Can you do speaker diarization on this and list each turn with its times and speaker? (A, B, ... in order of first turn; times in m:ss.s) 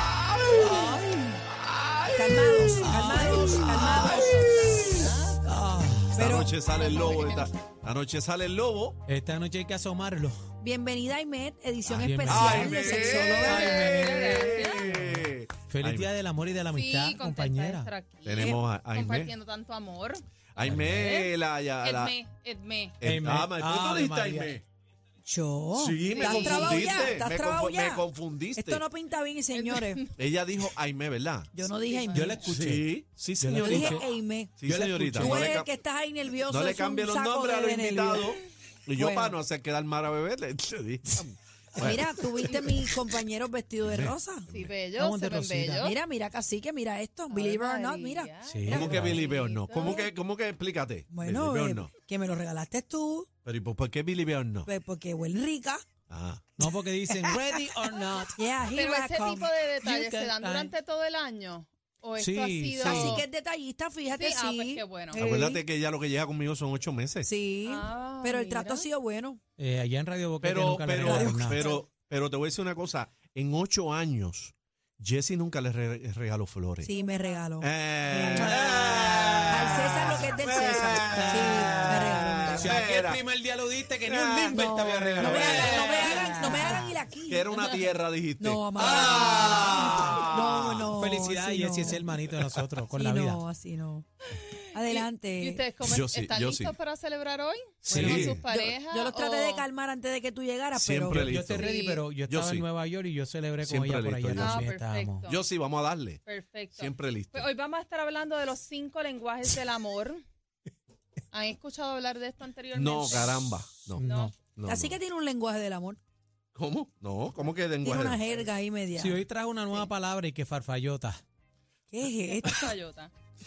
0:00.6-0:01.2 A
0:02.1-0:04.4 B
0:02.8-0:03.6 A
0:03.6-0:05.6 C
0:03.7-0:05.0 D
0:05.4-0:06.3 A
0:06.2-0:07.4 B
0:06.2-0:09.0 D
0:06.7-0:07.5 C
0:09.1-0:10.5 A
0:10.6-0:13.8 B
0:11.8-0:16.1 D
0:12.0-0:12.9 A
0:12.7-0:14.9 C
0:13.4-0:17.9 A
0:16.7-0:20.2 C
0:18.2-0:19.3 D
0:20.6-0:22.2 D
0:20.6-0:20.9 A
0:20.9-0:23.0 C
0:23.0-0:24.6 D
0:23.0-0:24.6 A
0:25.3-0:30.0 B
0:25.8-0:28.8 D
0:26.1-0:27.2 C
0:29.5-0:30.2 C
0:30.2-0:31.5 D
0:31.5-0:32.4 B
0:31.6-0:32.4 C
0:32.1-0:34.1 A
0:32.5-0:34.0 D
0:33.5-0:34.5 B
0:34.6-0:35.7 D
0:34.6-0:35.6 A
0:35.1-0:38.4 B
0:36.5-0:42.8 D
0:39.0-0:39.4 B
0:41.8-0:44.5 B
0:43.8-0:44.8 D
0:44.5-0:46.0 C
0:45.0-0:45.9 A
0:45.8-0:49.1 B
0:47.3-0:50.1 C
0:48.5-0:49.2 A
0:48.7-0:51.9 D
0:51.1-0:53.3 B
0:53.4-0:54.7 D
0:54.7-0:55.8 B
0:56.1-0:56.4 D
0:56.6-0:58.5 A
0:57.1-0:57.4 B
0:58.4-0:59.5 B
0:58.7-1:03.2 C
0:59.8-1:00.7 A
1:02.2-1:03.2 A
1:02.8-1:05.6 B
1:04.1-1:05.2 C
1:05.1-1:07.3 D
1:07.2-1:09.4 B
1:07.6-1:08.9 C
1:09.6-1:11.7 A
1:10.4-1:16.9 D
1:11.0-1:11.8 B
1:16.8-1:18.7 B
1:16.9-1:17.5 C
1:17.6-1:23.2 D
1:18.3-1:27.0 A
1:19.5-1:22.8 B
1:24.0-1:31.0 D
1:24.5-1:27.4 B
1:28.4-1:32.0 B
1:28.8-1:30.4 A
1:31.0-1:33.4 A
1:32.3-1:32.6 D
1:32.9-1:34.1 B
1:34.3-1:39.7 C
1:34.7-1:35.6 B
1:35.8-1:36.8 D
1:37.9-1:38.4 D
1:37.9-1:38.4 A
1:38.3-1:41.3 B
1:40.7-1:42.7 D
1:41.1-1:45.3 A
1:41.6-1:42.0 C
1:43.6-1:44.6 D
1:44.4-1:45.4 C
1:45.3-1:46.2 D
1:46.2-1:50.2 C
1:46.7-1:47.5 D
1:51.3-1:54.3 C
1:52.7-1:54.0 D
1:53.9-1:54.4 A
1:54.5-1:55.0 D
1:54.7-1:56.0 B
1:56.6-1:58.2 D
1:57.8-1:59.2 B
1:59.0-2:01.2 A
2:01.9-2:02.7 B
2:02.3-2:03.1 C